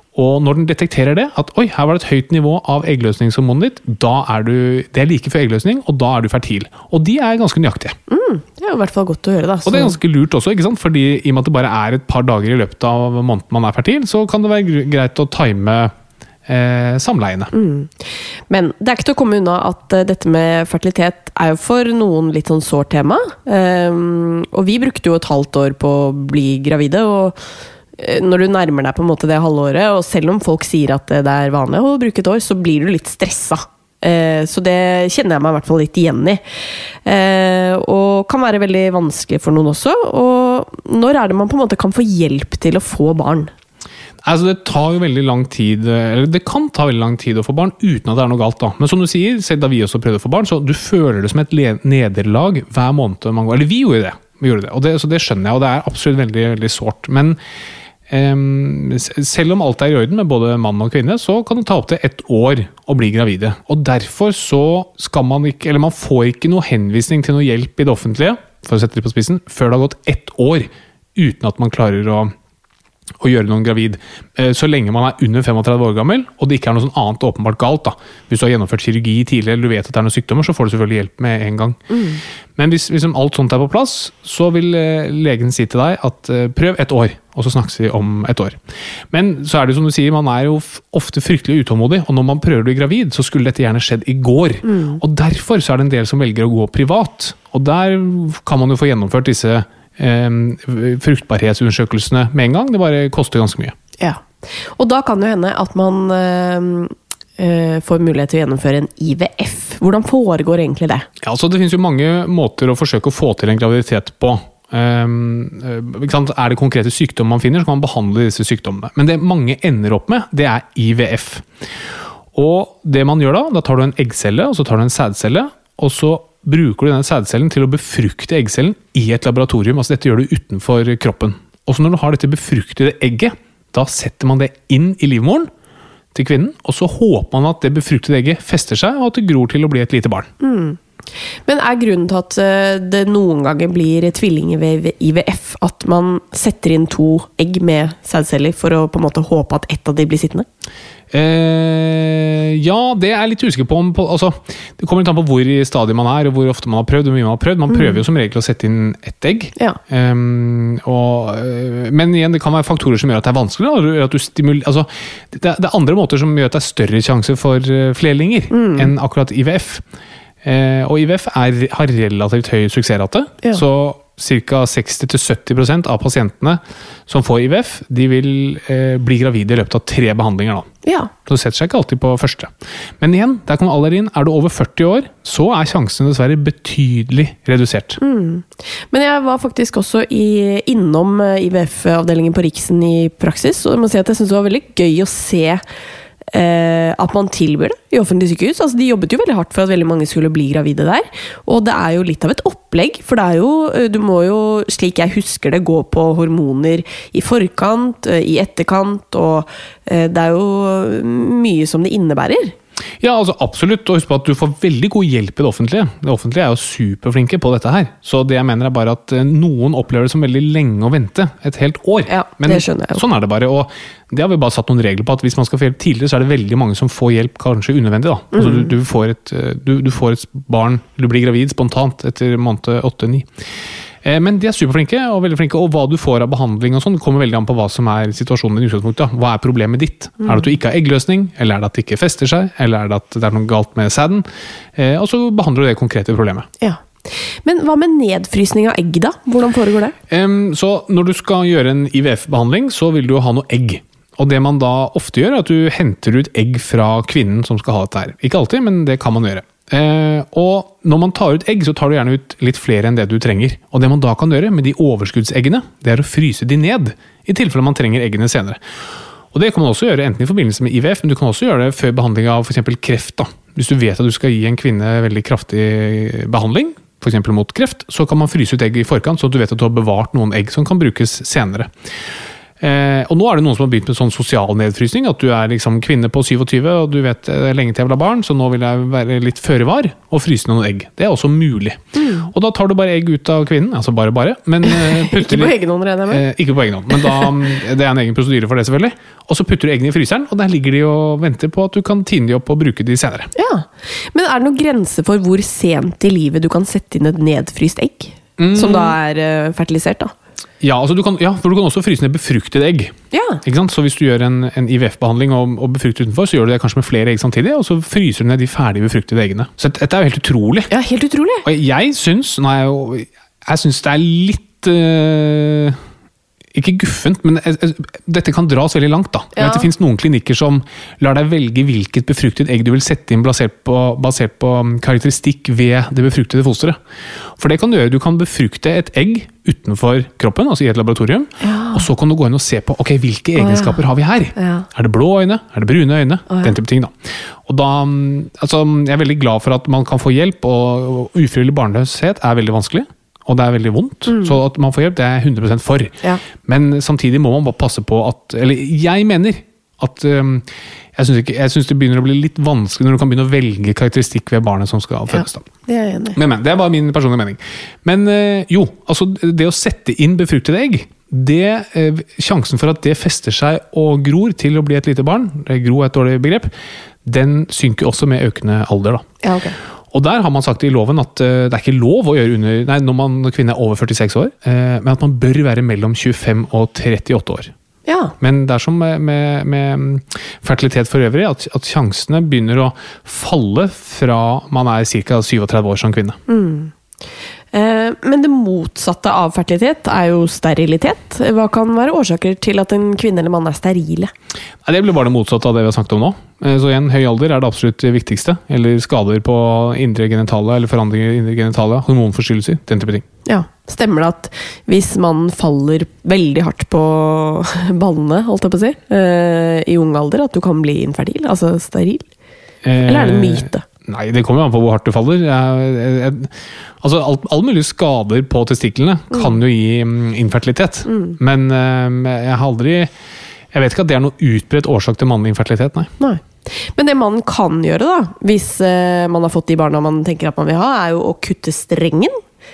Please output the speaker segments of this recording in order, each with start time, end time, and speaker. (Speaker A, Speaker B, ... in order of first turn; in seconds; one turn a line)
Speaker A: 0.1-8.0
Speaker B: 8.1-10.0
Speaker A: 9.6-15.9
Speaker A: 16.5-17.5
Speaker B: 17.5-27.4
Speaker B: 28.0-36.4
Speaker B: 37.0-43.5
Speaker A: 44.2-57.4
Speaker A: 58.1-72.3
Speaker A: 73.2-82.0
Speaker B: 81.9-82.2
Speaker A: 82.5-88.6
Speaker A: 89.1-103.8
Speaker B: 94.6-95.0
Speaker B: 104.0-111.1
Speaker A: 111.2-121.4
Speaker A: 122.3-135.5
Speaker A: 136.1-140.3
Speaker B: 140.4-140.8
Speaker B: 141.4-150.4
Speaker A: 151.1-169.8
Speaker B: 157.7-158.0
Speaker B: 168.5-168.9
Speaker A: 170.4-180.7
Speaker B: 180.8-181.1
Speaker A: 181.2-188.0
Speaker B: 188.0-195.6
Speaker B: 196.3-212.5
Speaker A: 213.0-233.3
Speaker B: 222.1-223.0
Speaker B: 228.3-228.7
Speaker A: 234.0-246.5
Speaker B: 240.2-240.5
Speaker B: 246.6-249.9
Speaker A: 250.1-268.6
Speaker A: 269.3-281.7
Speaker A: 282.6-295.6
Speaker B: 291.9-292.3
Speaker B: 294.6-296.2
Speaker A: 296.1-303.3
Speaker B: 303.4-310.1
Speaker A: 308.4-309.0
Speaker A: 310.6-320.7
Speaker B: 313.1-313.4
Speaker B: 320.7-321.4
Speaker A: 321.4-325.8
Speaker A: 326.5-336.8
Speaker B: 329.4-329.7
Speaker A: 337.4-365.5
Speaker B: 341.4-341.9
Speaker B: 343.4-343.8
Speaker B: 344.4-344.6
Speaker B: 346.3-346.5
Speaker B: 354.1-354.4
Speaker B: 365.1-366.2
Speaker A: 366.1-376.5
Speaker A: 377.0-379.1
Speaker B: 379.2-379.5
Speaker A: 379.9-387.5
Speaker B: 387.9-388.1
Speaker A: 388.2-396.2
Speaker B: 396.3-396.7
Speaker B: 397.5-404.1
Speaker A: 404.6-413.0
Speaker B: 413.2-422.1
Speaker A: 422.6-432.9
Speaker B: 422.8-423.6
Speaker B: 430.9-431.2
Speaker A: 433.5-435.9
Speaker B: 436.0-442.2